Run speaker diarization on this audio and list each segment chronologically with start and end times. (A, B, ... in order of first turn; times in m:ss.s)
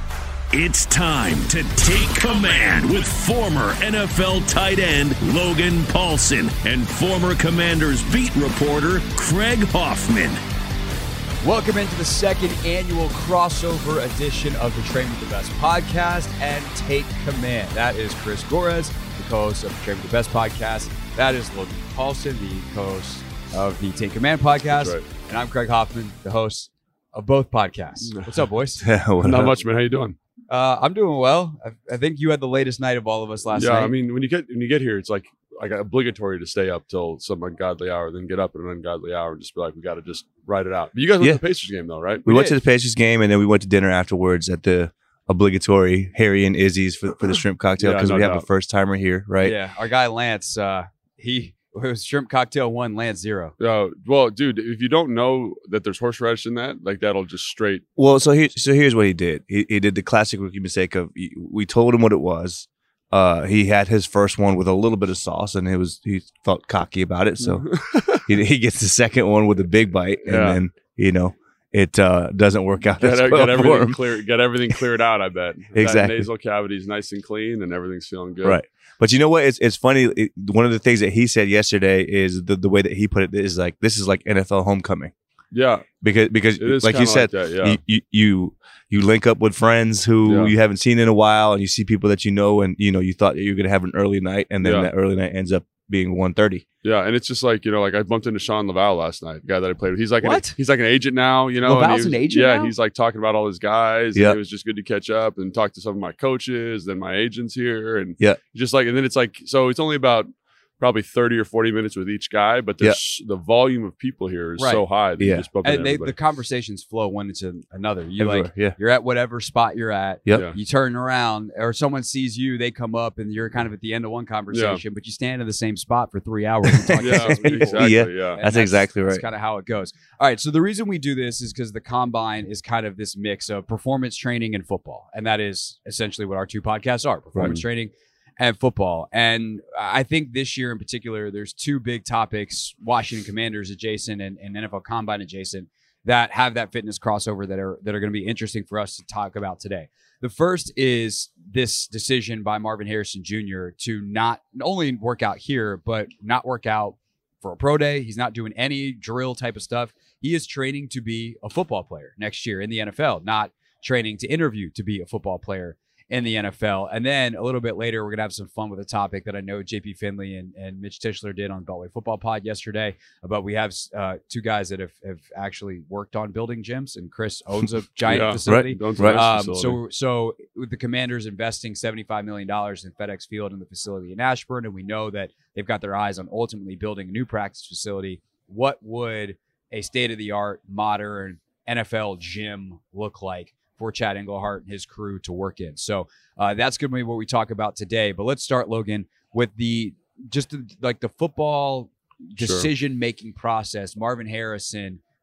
0:00.5-0:10.4 A
0:11.4-0:28.8 B
0:24.7-0:25.0 C
0:28.0-0:28.4 C
0:28.8-0:29.6 D
0:29.2-0:30.2 C
0:30.5-0:34.0 B
0:33.6-0:42.4 C
0:42.3-0:49.6 D
0:47.8-0:48.4 C
0:49.4-0:53.6 B
0:53.6-0:57.8 C
0:58.0-1:07.6 D
1:07.4-1:08.3 C
1:08.3-1:14.8 D
1:10.2-1:10.6 C
1:13.0-1:18.6 C
1:15.7-1:16.3 D
1:18.4-1:25.1 D
1:25.5-1:25.9 C
1:25.9-1:36.6 D
1:26.6-1:27.7 C
1:30.3-1:30.5 C
1:34.6-1:34.9 C
1:36.8-1:56.1 C
1:40.2-1:40.6 B
1:41.6-1:42.7 B
1:54.6-1:54.8 B
1:55.2-1:55.5 D
1:55.6-3:25.0 B
1:58.2-1:58.8 D
2:00.2-2:00.5 D
2:04.5-2:04.8 C
2:06.7-2:09.2 D
2:07.0-2:08.4 C
2:17.3-2:17.6 D
2:58.0-2:59.8 C
2:58.4-2:59.3 D
3:22.4-3:22.7 C